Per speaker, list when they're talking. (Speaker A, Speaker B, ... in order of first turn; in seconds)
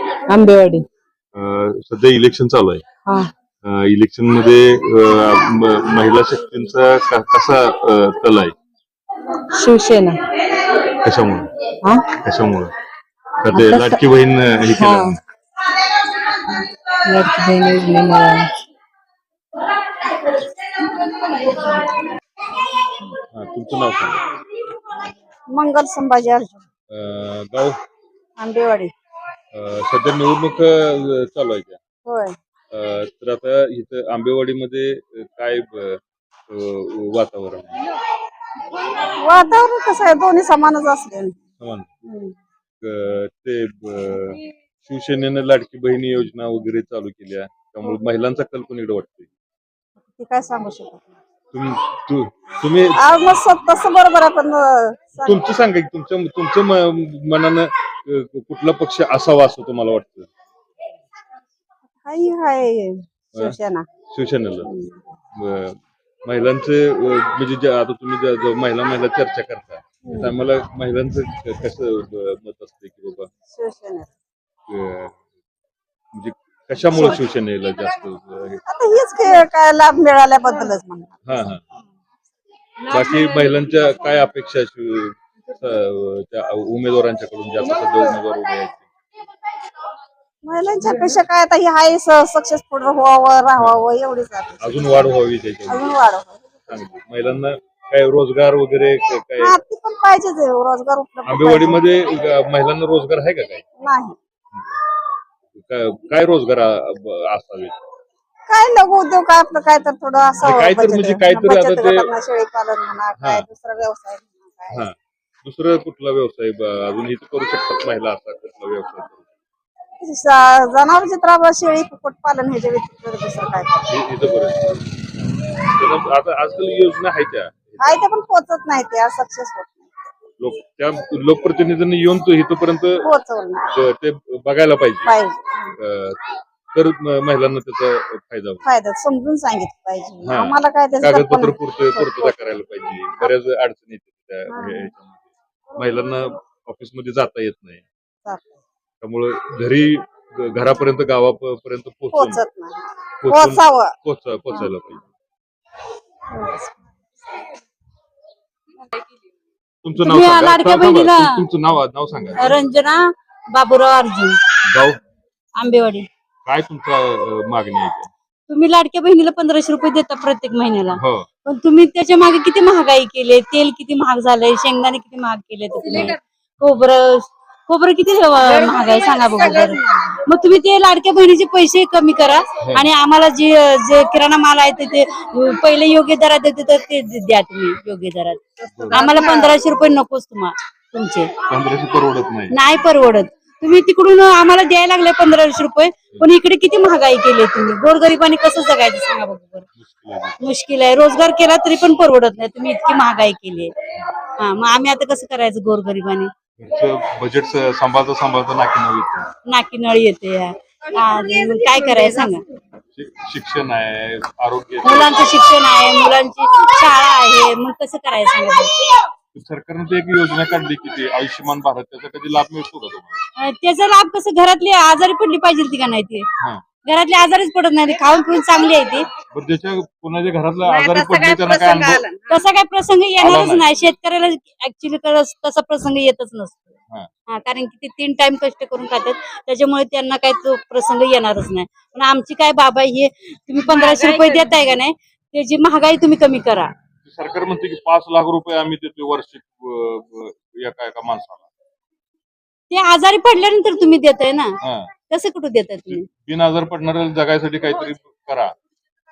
Speaker A: 0.3-0.9, 3.1-3.3, 9.5-10.3, 11.8-12.1, 13.5-14.0, 14.8-15.1, 17.1-18.5, 82.9-83.6, 243.8-244.3
Speaker B: 1.4-2.9, 3.6-8.5, 10.9-11.5, 12.1-12.7, 13.4-15.2, 23.3-24.2, 26.9-27.8, 29.5-31.8, 32.7-37.8, 41.6-41.9, 42.8-49.3, 51.5-53.0, 55.2-60.3, 64.1-64.7, 65.4-73.3, 74.7-75.2, 76.1-78.6, 81.2-81.6, 82.9-88.9, 93.6-93.8, 94.6-95.9, 96.7-99.6, 101.2-103.7, 105.5-107.7, 110.4-112.1, 113.2-113.5, 114.7-119.2, 123.9-124.8, 125.6-127.9, 130.4-133.1, 133.7-135.1, 135.8-136.2, 136.7-138.6, 140.2-145.2, 145.8-147.8, 149.0-152.4, 153.2-155.1, 159.8-162.6, 164.7-165.0, 166.4-168.1, 170.9-171.3, 175.9-176.2, 182.6-182.9, 188.7-189.1, 191.5-192.6, 199.8-200.4, 206.6-209.3, 212.9-215.5, 219.3-223.2, 229.3-232.0, 233.2-233.7, 247.0-251.5, 254.6-254.9, 255.9-258.5
Speaker C: 25.5-26.6, 28.4-28.9, 32.0-32.3, 39.0-41.4, 50.1-51.1, 53.0-55.4, 62.0-63.9, 64.7-65.0, 73.5-74.1, 76.9-77.2, 78.7-81.2, 90.4-95.1, 95.7-96.7, 99.4-101.8, 103.8-104.2, 108.5-114.8, 120.0-123.9, 127.8-129.8, 133.0-133.7, 135.1-135.7, 138.6-142.3, 144.5-144.9, 152.1-153.9, 156.3-156.7, 178.4-180.2, 188.7-189.7, 210.9-212.4, 230.6-232.4
Speaker D: 160.0-161.4, 162.4-164.4, 165.5-166.1, 168.5-188.4, 188.9-191.3, 192.5-199.7, 200.4-203.7, 204.4-206.3, 209.5-212.4, 214.8-218.9, 223.4-226.2, 226.8-229.1, 232.3-236.7, 237.3-246.7, 252.7-254.5, 255.1-256.1